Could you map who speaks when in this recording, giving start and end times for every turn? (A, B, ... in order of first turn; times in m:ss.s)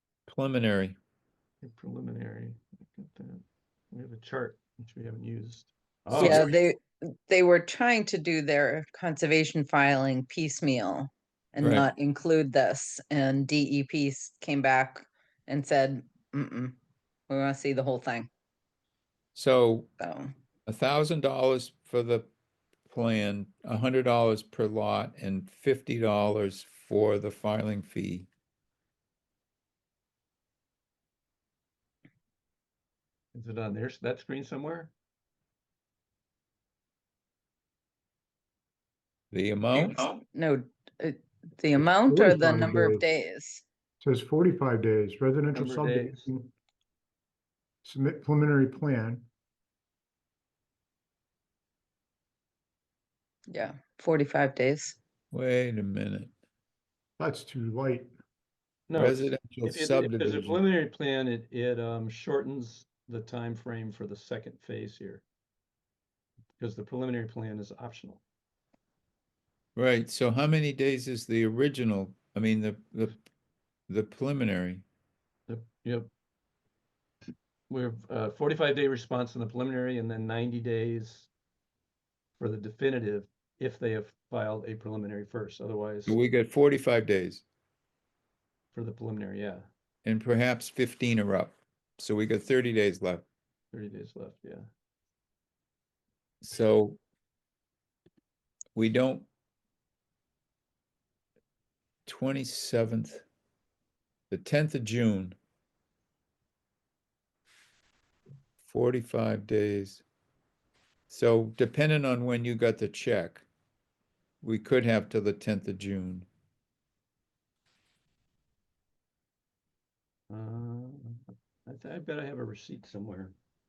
0:00.3-0:01.0 A
0:01.6-0:06.5 B
0:06.1-0:06.5 A
0:06.2-0:16.8 C
0:11.6-0:11.9 A
0:17.3-0:18.3 C
0:19.4-0:19.9 A
0:20.0-0:20.3 C
0:20.7-0:22.3 A
0:22.9-0:28.3 A
0:33.3-0:34.9 B
0:39.3-0:40.2 A
0:39.8-0:43.6 C
0:41.8-0:43.0 D
0:44.0-0:46.5 D
0:45.5-0:46.2 B
0:47.8-0:49.3 D
0:53.5-0:55.0 C
0:55.3-0:56.3 A
0:57.2-0:58.1 D
0:58.9-1:05.2 B
0:58.9-1:00.6 A
1:06.6-1:08.2 B
1:09.8-1:13.2 A
1:13.9-1:14.8 A
1:15.5-1:16.1 B
1:17.7-1:21.3 B
1:22.4-1:26.2 B
1:26.1-1:27.4 A
1:28.7-1:29.7 B
1:30.0-1:33.2 A
1:33.7-1:34.7 B
1:36.4-1:37.0 A
1:38.8-1:39.3 A
1:42.1-1:43.2 A
1:44.3-1:45.4 A
1:48.6-1:50.0 A
1:51.1-1:53.4 A
1:54.4-1:56.3 A
2:00.3-2:03.4 B